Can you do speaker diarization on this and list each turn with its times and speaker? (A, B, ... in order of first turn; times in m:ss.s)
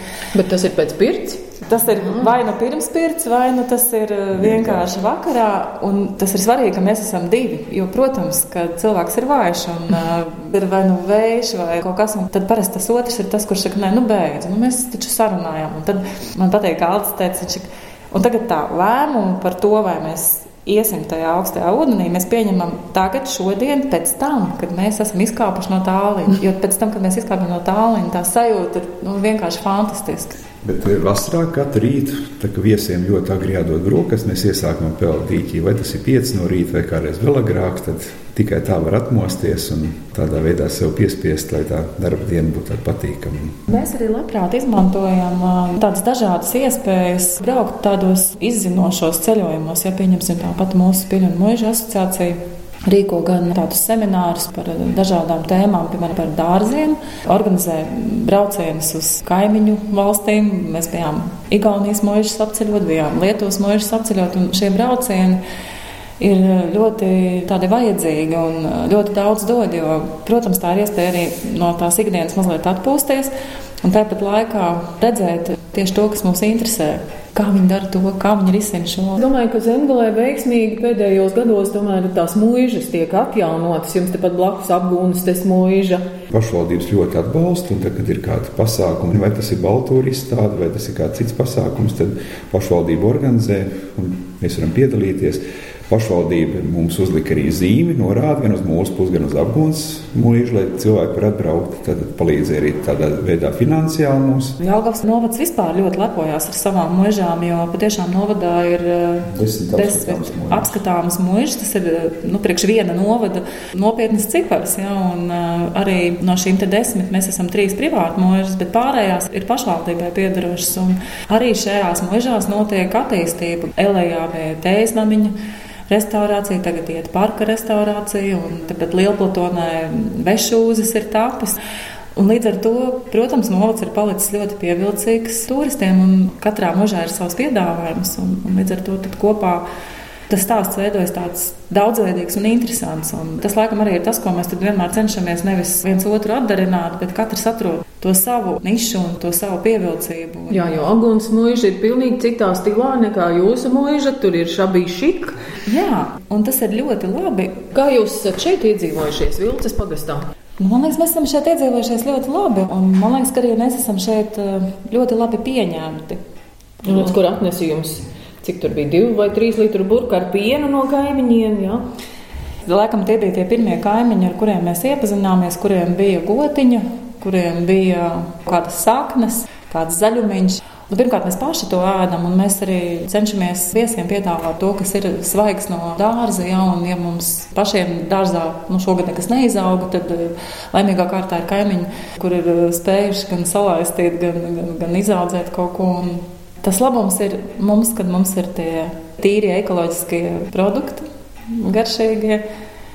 0:00.3-0:01.5 A
0:01.6-0:30.4 B
0:30.6-0:43.6 C
0:43.7-1:05.4 B
1:06.2-1:13.3 B
1:13.8-1:19.2 B
1:19.2-1:26.1 A
1:26.3-1:44.6 C
1:44.6-2:05.3 B
1:49.3-1:50.8 C
2:05.9-2:11.6 B
2:12.2-2:19.6 B
2:20.3-2:30.9 B
2:30.5-2:35.4 A
2:35.6-2:37.6 B
2:37.7-2:40.3 A
2:40.6-2:46.2 B
2:46.8-2:51.8 A
2:52.6-3:22.4 B